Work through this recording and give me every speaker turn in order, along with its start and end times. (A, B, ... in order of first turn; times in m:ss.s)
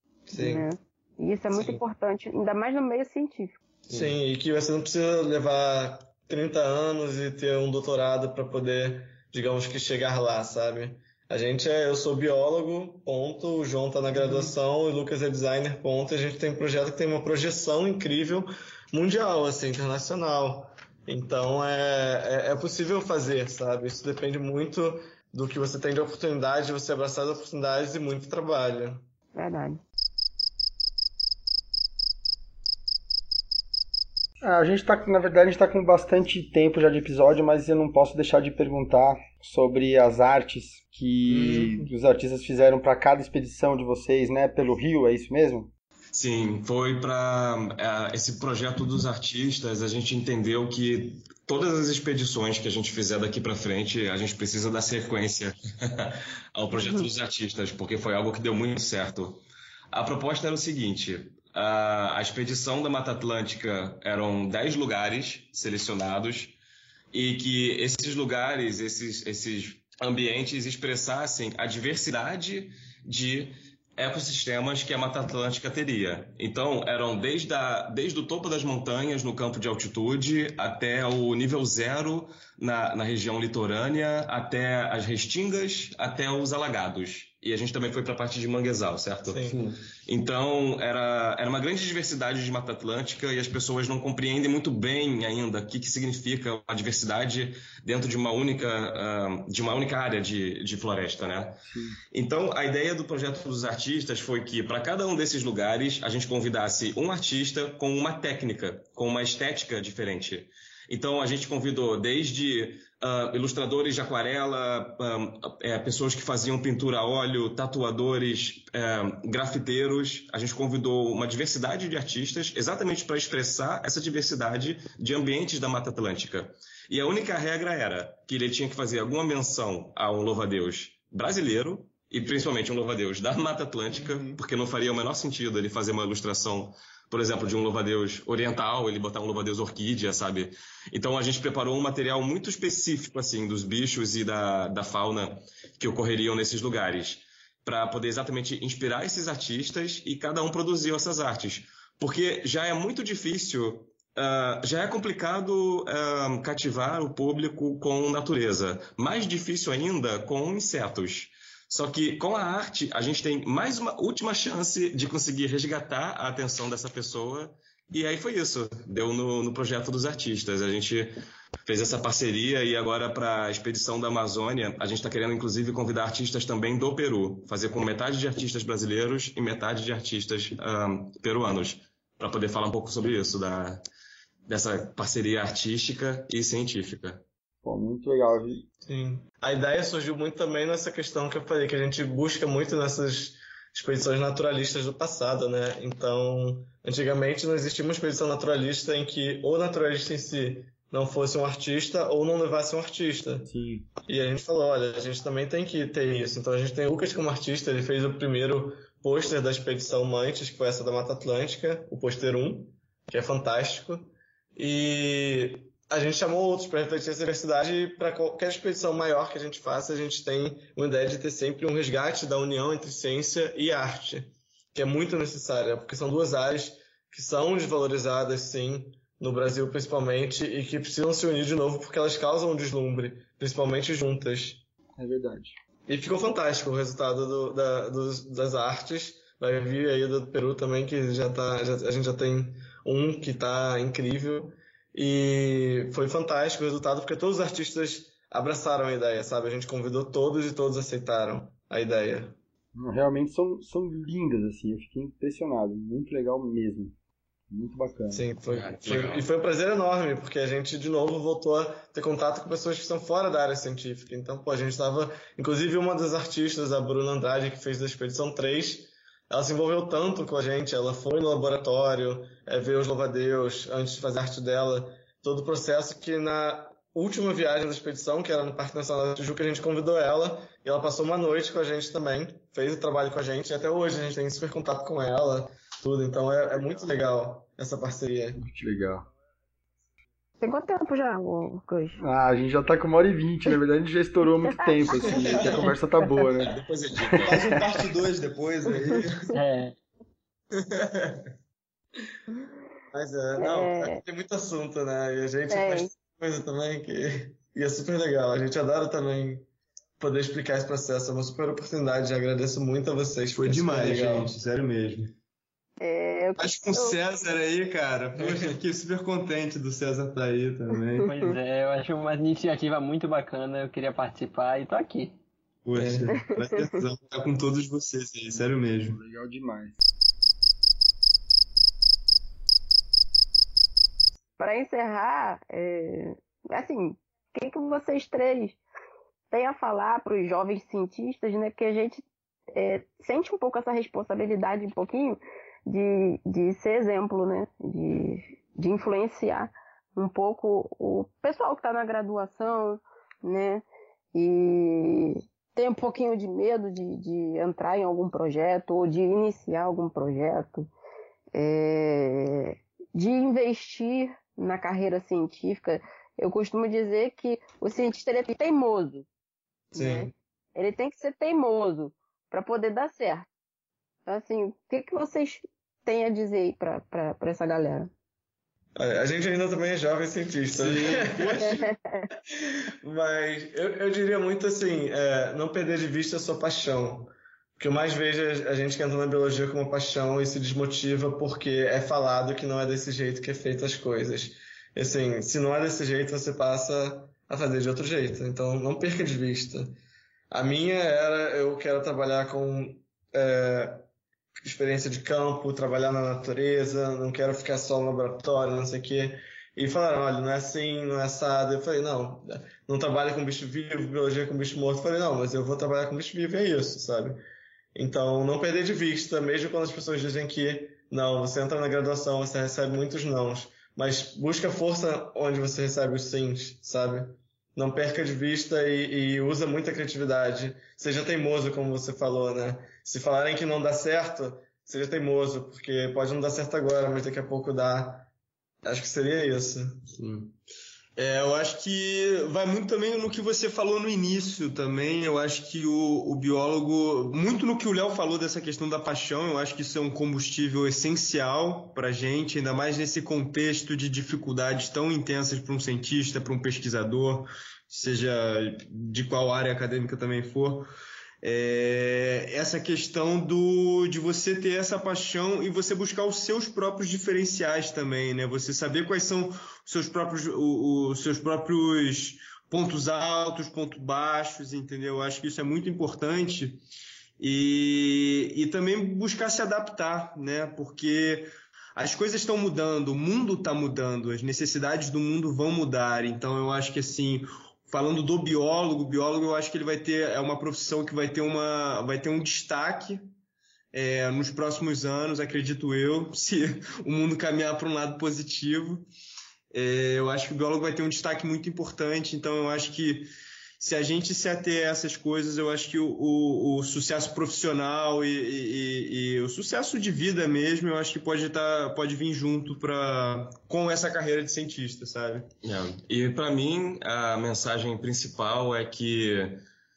0:00.3-0:00.7 A
0:00.3-0:03.6 B
0:01.5-0:01.8 A
0:03.9-0:29.0 A
0:14.2-0:14.5 C
0:29.4-0:29.8 B
0:34.4-0:45.7 D
0:41.3-0:41.9 A
0:46.1-1:06.6 E
0:56.8-0:57.1 B
1:07.1-1:29.5 E
1:29.3-1:29.7 A
1:30.1-2:51.1 E
1:41.7-1:42.0 D
2:14.0-2:14.4 C
2:51.7-3:03.8 E
3:04.5-3:07.2 E
3:07.6-3:08.7 D
3:08.8-3:23.5 A
3:23.5-3:23.9 D
3:24.0-3:54.6 A
3:55.0-3:55.6 D
3:55.9-4:12.4 A
4:12.8-4:17.0 D
4:17.5-4:18.2 D
4:18.1-4:48.4 A
4:18.5-4:19.3 E
4:48.4-4:49.1 D
4:50.4-4:52.0 B
4:52.0-4:56.6 D
4:56.5-4:57.6 E
4:57.1-4:57.6 D
4:57.2-4:59.3 C
4:59.3-4:59.8 F
5:02.9-5:09.5 A
5:03.4-5:04.0 B
5:05.5-5:05.9 B
5:10.0-5:14.3 A
5:13.4-5:15.1 C
5:15.8-5:17.0 B
5:16.4-5:21.1 C
5:18.2-5:18.5 A
5:21.1-5:25.2 F
5:25.6-5:29.0 C
5:25.8-5:26.1 A
5:26.1-5:26.8 B
5:28.8-5:29.8 D
5:34.4-5:38.6 B
5:39.3-6:00.7 B
6:01.3-6:09.1 B
6:09.7-6:10.1 A
6:09.7-6:13.3 B
6:14.1-6:17.9 B
6:18.8-6:21.6 A
6:20.7-6:21.4 C
6:21.4-6:22.1 B
6:22.8-6:39.8 A
6:40.3-6:43.8 A
6:44.4-6:57.2 A
6:57.8-7:18.1 A
7:18.6-7:19.8 A
7:19.9-7:20.4 C
7:21.0-7:40.7 C
7:41.2-7:56.6 C
7:57.2-8:13.0 C
8:13.7-8:18.8 C
8:19.5-8:35.3 C
8:35.4-8:39.4 E